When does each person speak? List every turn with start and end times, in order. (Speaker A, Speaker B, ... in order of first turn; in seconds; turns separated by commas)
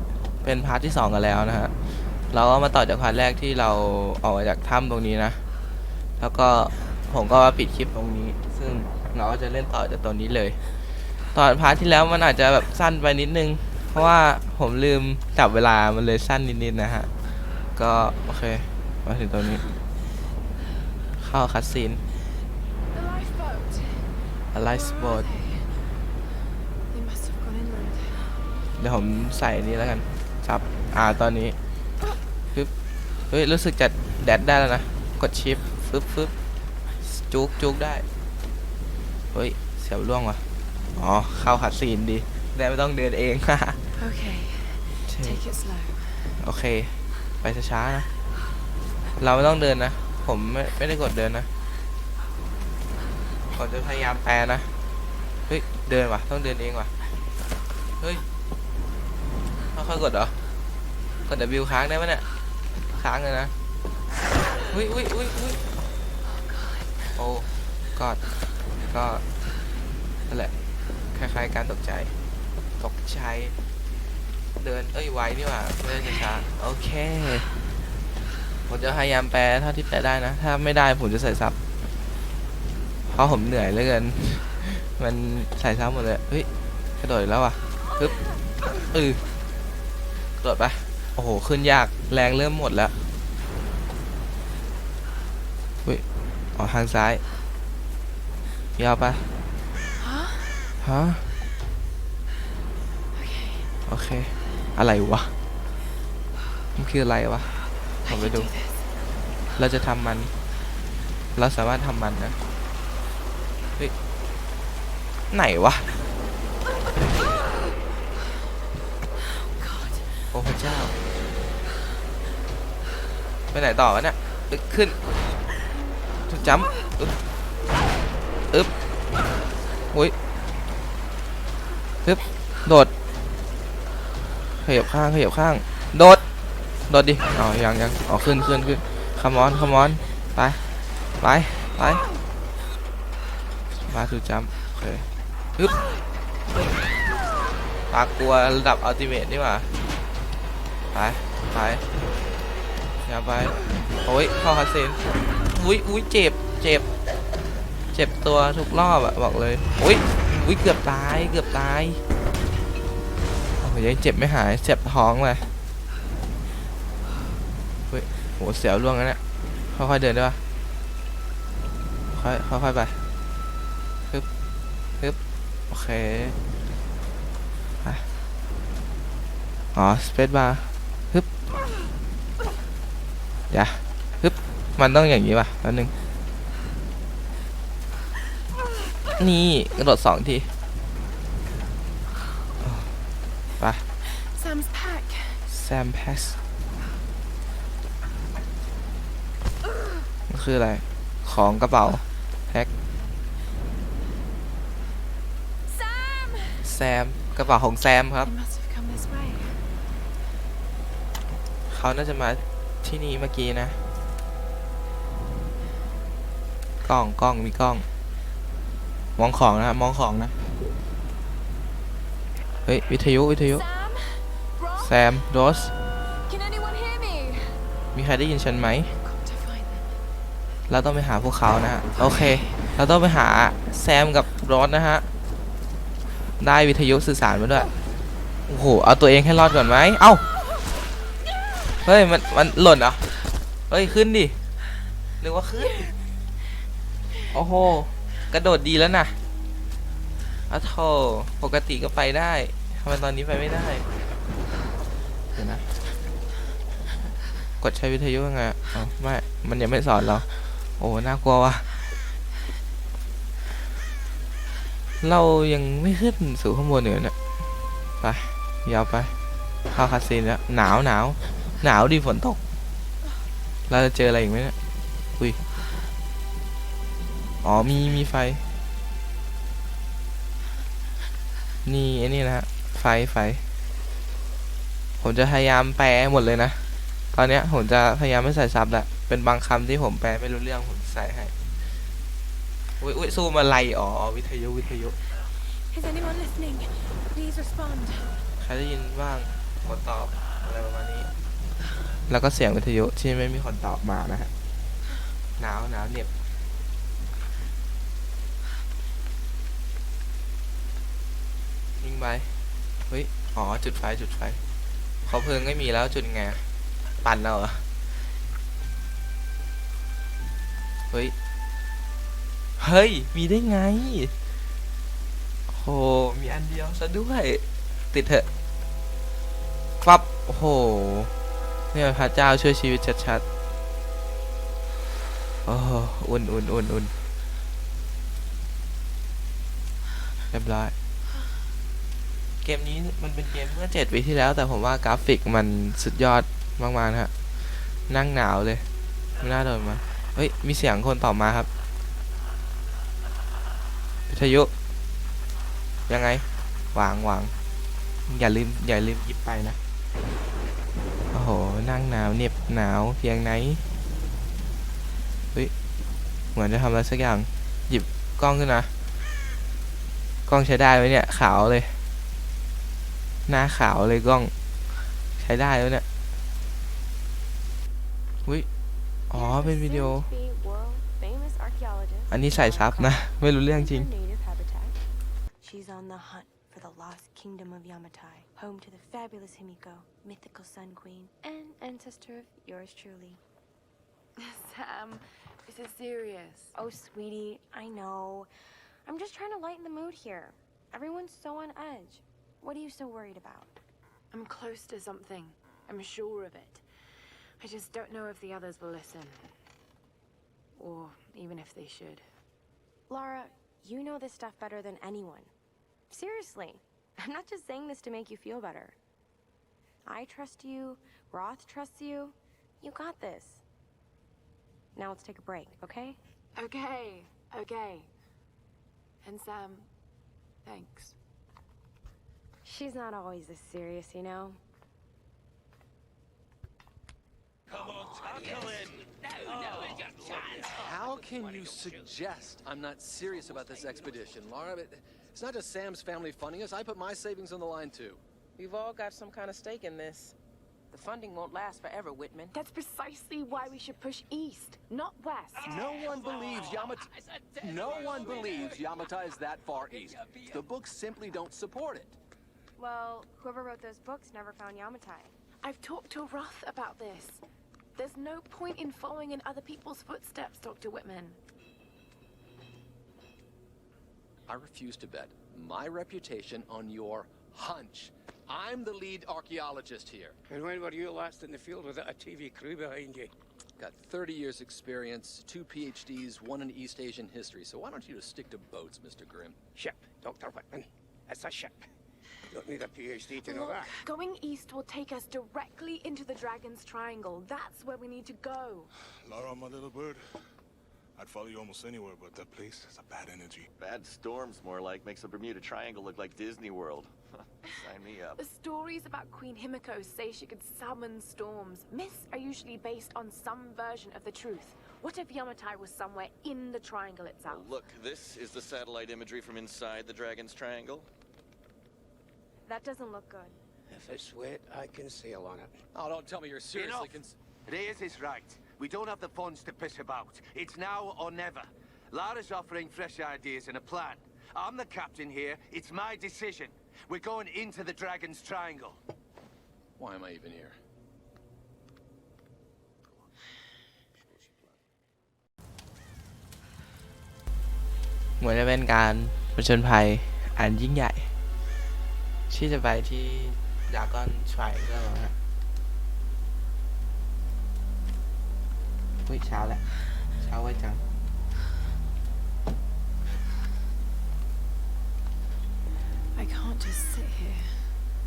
Speaker A: 0.4-1.7, Speaker A: 2.3-5.4, Speaker A: 6.2-10.6, Speaker A: 11.3-17.1, Speaker A: 17.7-19.7, Speaker A: 21.2-22.0, Speaker B: 22.9-26.0, Speaker A: 24.5-25.3, Speaker B: 26.9-28.4, Speaker A: 28.8-31.6, Speaker A: 33.3-36.3, Speaker A: 37.0-38.0, Speaker A: 39.3-40.4, Speaker A: 41.0-43.8, Speaker B: 43.9-46.4, Speaker A: 45.1-45.4, Speaker A: 46.4-48.1, Speaker A: 49.2-51.5, Speaker A: 53.5-54.7, Speaker A: 55.5-56.9, Speaker A: 59.7-60.3, Speaker A: 61.3-62.2, Speaker A: 63.0-63.5, Speaker A: 64.7-65.6, Speaker B: 66.2-67.1, Speaker A: 67.1-68.2, Speaker A: 68.9-69.2, Speaker A: 71.1-72.1, Speaker A: 72.8-73.5, Speaker A: 74.6-77.5, Speaker A: 78.7-81.6, Speaker A: 83.1-86.5, Speaker A: 87.0-88.2, Speaker A: 88.9-89.2, Speaker A: 90.4-92.9, Speaker A: 96.5-97.2, Speaker A: 98.8-99.3, Speaker B: 100.0-100.7, Speaker A: 100.8-101.3, Speaker B: 103.1-103.7, Speaker A: 103.9-105.3, Speaker A: 106.8-108.5, Speaker B: 108.0-108.9, Speaker A: 109.5-110.3, Speaker A: 111.3-112.4, Speaker A: 115.3-116.1, Speaker B: 119.2-120.2, Speaker A: 120.3-121.0, Speaker A: 123.5-125.0, Speaker A: 126.3-127.2, Speaker A: 132.0-132.9, Speaker A: 134.6-136.2, Speaker A: 136.9-140.6, Speaker A: 141.2-142.0, Speaker A: 143.8-145.8, Speaker A: 147.9-149.7, Speaker A: 150.9-151.8, Speaker A: 153.0-156.8, Speaker A: 157.9-162.0, Speaker A: 163.6-165.5, Speaker A: 167.9-169.2, Speaker A: 169.7-170.4, Speaker A: 172.1-173.0, Speaker A: 175.7-176.4, Speaker A: 179.7-181.3, Speaker A: 183.5-185.9, Speaker A: 189.2-190.5, Speaker A: 192.6-192.9, Speaker A: 193.6-193.8, Speaker B: 194.0-195.4, Speaker A: 195.5-196.4, Speaker A: 200.3-202.7, Speaker B: 205.7-206.6, Speaker A: 206.6-208.3, Speaker B: 208.2-209.6, Speaker A: 211.7-213.8, Speaker A: 216.8-217.8, Speaker A: 219.2-220.3, Speaker A: 222.7-223.6, Speaker B: 223.5-224.9, Speaker A: 224.8-225.7, Speaker B: 226.1-227.6, Speaker A: 227.9-228.9, Speaker B: 229.0-230.0, Speaker A: 230.7-235.1, Speaker B: 231.9-232.7, Speaker A: 236.4-237.7, Speaker A: 238.5-240.3, Speaker A: 241.8-243.1, Speaker A: 243.7-244.4, Speaker A: 245.2-245.9, Speaker A: 247.3-249.2, Speaker A: 250.5-253.9, Speaker A: 255.3-255.7, Speaker A: 257.6-261.8, Speaker A: 265.0-267.1, Speaker A: 268.0-269.1, Speaker A: 269.7-272.4, Speaker A: 273.7-274.6, Speaker A: 277.4-278.4, Speaker A: 281.6-283.4, Speaker A: 285.0-286.6, Speaker A: 287.1-291.3, Speaker A: 292.8-295.0, Speaker B: 295.4-298.2, Speaker A: 298.4-301.1, Speaker A: 302.1-304.3, Speaker A: 305.4-306.1, Speaker A: 311.8-312.3, Speaker A: 312.9-314.4, Speaker A: 315.1-316.4, Speaker A: 317.0-317.6, Speaker A: 322.6-324.1, Speaker A: 325.5-328.3, Speaker A: 329.8-331.1, Speaker A: 331.7-333.2, Speaker A: 335.4-336.9, Speaker A: 340.3-340.7, Speaker A: 342.4-347.1, Speaker A: 347.9-348.6, Speaker A: 349.2-351.5, Speaker A: 354.1-354.5, Speaker A: 355.9-357.3, Speaker A: 358.1-359.6, Speaker A: 361.1-363.6, Speaker A: 366.3-368.7, Speaker A: 370.3-371.8, Speaker A: 373.3-374.3, Speaker A: 375.2-375.8, Speaker A: 379.1-380.1, Speaker C: 379.1-384.8, Speaker A: 382.1-383.9, Speaker C: 385.4-393.2, Speaker B: 394.1-396.5, Speaker C: 396.5-398.3, Speaker C: 398.8-403.6, Speaker B: 404.1-406.6, Speaker B: 407.4-409.3, Speaker B: 410.6-412.0, Speaker C: 412.9-415.3, Speaker C: 415.9-418.8, Speaker C: 419.8-423.4, Speaker C: 424.7-426.0, Speaker B: 426.3-427.9, Speaker B: 429.0-429.7, Speaker B: 430.4-430.9, Speaker C: 432.4-434.4, Speaker D: 437.6-438.7, Speaker D: 439.5-448.0, Speaker E: 440.8-441.7, Speaker F: 448.4-450.1, Speaker F: 450.7-452.3, Speaker B: 452.3-455.6, Speaker D: 455.4-461.9, Speaker C: 462.6-465.1, Speaker B: 465.4-467.2, Speaker B: 467.7-471.2, Speaker D: 474.3-480.2, Speaker E: 480.3-483.1, Speaker D: 483.6-489.4, Speaker E: 489.5-491.7, Speaker E: 492.3-493.7, Speaker B: 493.2-498.7, Speaker G: 499.0-500.0, Speaker G: 500.9-503.5, Speaker H: 503.6-508.2, Speaker B: 508.1-517.5, Speaker H: 517.2-520.9, Speaker C: 522.5-523.4, Speaker E: 523.7-525.6, Speaker D: 525.7-527.1, Speaker I: 526.5-538.8, Speaker D: 539.8-540.5, Speaker A: 548.2-551.1, Speaker A: 552.3-555.1, Speaker A: 559.1-559.6, Speaker A: 560.2-560.8, Speaker B: 566.1-567.8